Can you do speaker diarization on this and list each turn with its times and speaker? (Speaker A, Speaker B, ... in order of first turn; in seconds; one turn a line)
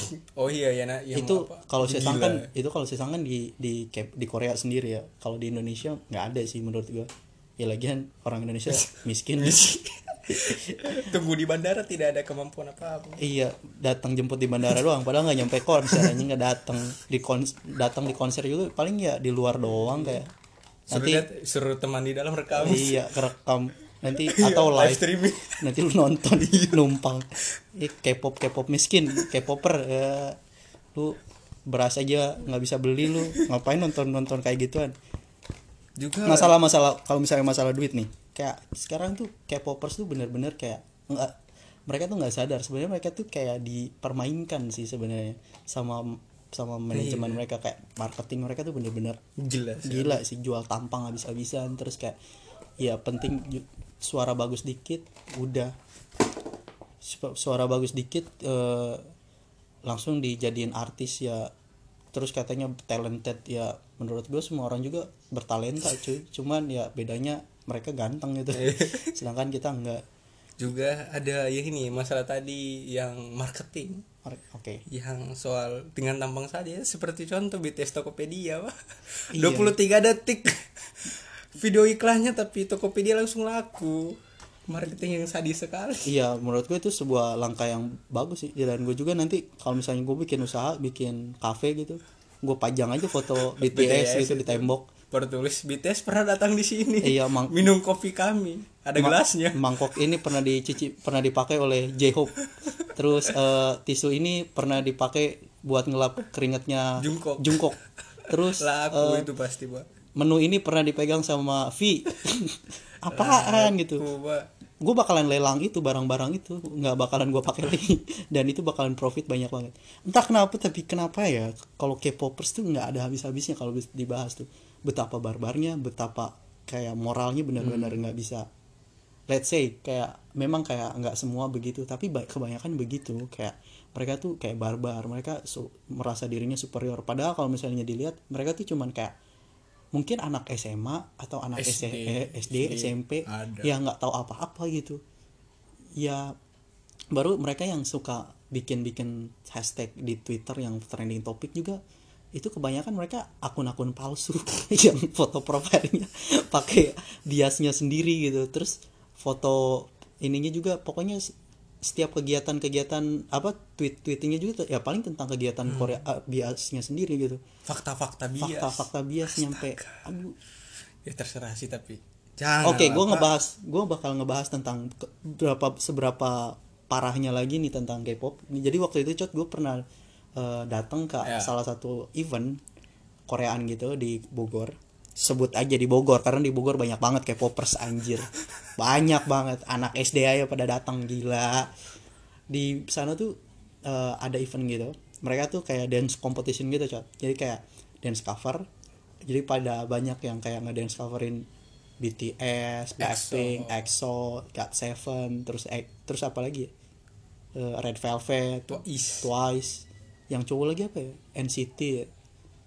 Speaker A: 0.1-2.5
Speaker B: 1.1-9.7
Speaker A: 9.4-13.2
Speaker B: 10.3-11.0
Speaker B: 13.2-20.3
Speaker A: 15.9-16.2
Speaker A: 19.6-20.2
Speaker A: 20.9-23.1
Speaker B: 20.9-21.3
Speaker B: 22.6-25.0
Speaker A: 24.2-25.7
Speaker B: 25.6-30.4
Speaker A: 26.3-26.8
Speaker B: 30.9-34.9
Speaker A: 36.0-36.6
Speaker B: 36.3-41.3
Speaker B: 41.9-49.2
Speaker A: 46.9-47.4
Speaker A: 49.4-50.2
Speaker B: 49.8-52.2
Speaker B: 52.8-55.7
Speaker B: 57.0-59.1
Speaker B: 59.9-61.5
Speaker B: 62.1-70.0
Speaker A: 68.5-69.1
Speaker A: 70.6-74.0
Speaker B: 74.2-74.8
Speaker A: 74.9-78.8
Speaker B: 79.3-79.8
Speaker A: 79.3-84.1
Speaker A: 84.7-86.1
Speaker B: 86.0-94.9
Speaker A: 93.6-99.6
Speaker B: 97.0-97.7
Speaker B: 99.0-107.8
Speaker A: 102.4-102.7
Speaker A: 107.0-109.9
Speaker B: 108.3-109.3
Speaker B: 110.2-114.1
Speaker A: 113.1-114.5
Speaker B: 114.8-128.4
Speaker A: 127.6-128.0
Speaker B: 129.3-139.2
Speaker B: 139.9-145.0
Speaker A: 141.6-143.8
Speaker B: 146.0-146.3
Speaker B: 147.1-151.8
Speaker B: 152.3-167.4
Speaker A: 165.7-166.0
Speaker A: 167.7-170.0
Speaker B: 168.4-170.4
Speaker A: 171.1-173.3
Speaker B: 172.6-179.8
Speaker B: 180.4-182.6
Speaker A: 181.2-181.6
Speaker B: 183.3-191.7
Speaker B: 192.5-193.3
Speaker B: 193.9-198.7
Speaker B: 199.2-201.4
Speaker B: 202.0-206.7
Speaker A: 203.0-203.9
Speaker B: 207.6-212.1
Speaker A: 208.7-209.3